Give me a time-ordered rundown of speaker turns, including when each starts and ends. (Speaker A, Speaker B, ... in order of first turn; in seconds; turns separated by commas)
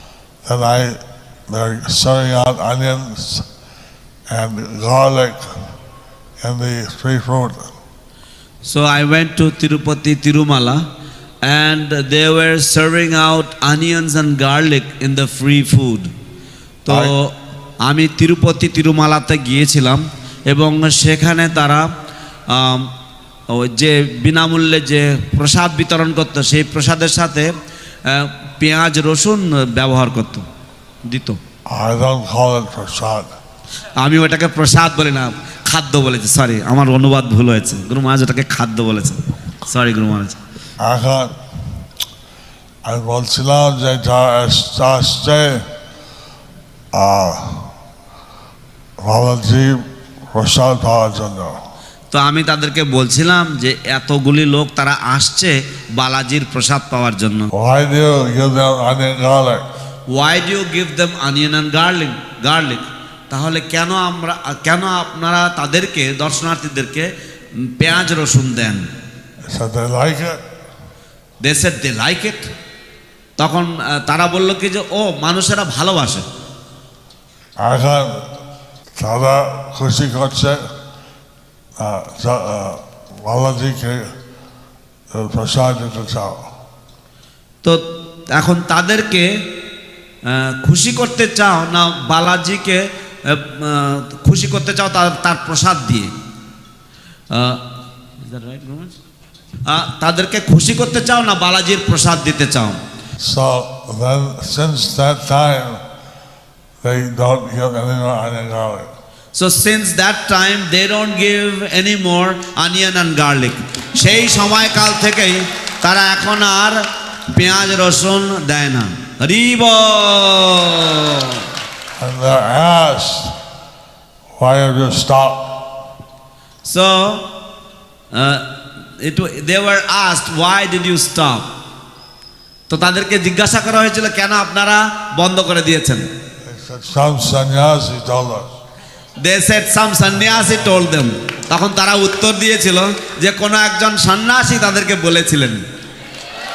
Speaker A: 0.5-3.5, Speaker A: 4.3-5.6, Speaker A: 6.4-7.7, Speaker B: 8.6-10.8, Speaker B: 11.4-16.1, Speaker B: 16.9-21.9, Speaker B: 22.5-22.9, Speaker B: 23.5-27.5, Speaker B: 28.1-30.5, Speaker B: 31.1-31.4, Speaker A: 31.7-33.4, Speaker B: 34.0-40.4, Speaker A: 40.8-41.4, Speaker A: 42.8-45.7, Speaker A: 46.9-47.7, Speaker A: 49.0-51.6, Speaker B: 52.1-57.5, Speaker A: 57.5-59.6, Speaker B: 60.1-67.1, Speaker B: 67.6-68.9, Speaker A: 69.5-70.4, Speaker B: 71.4-72.4, Speaker B: 73.4-76.2, Speaker A: 77.6-78.3, Speaker A: 79.0-80.6, Speaker A: 81.8-84.2, Speaker A: 85.1-86.5, Speaker B: 88.3-89.3, Speaker B: 90.2-96.1, Speaker B: 97.3-97.7, Speaker B: 98.2-99.0, Speaker B: 99.7-102.8, Speaker A: 103.2-105.8, Speaker A: 106.8-108.9, Speaker B: 109.3-121.5, Speaker A: 122.0-123.4, Speaker A: 124.4-125.5, Speaker B: 126.6-127.3, Speaker B: 128.1-131.5, Speaker B: 132.7-136.1, Speaker A: 136.4-138.5, Speaker B: 139.2-145.6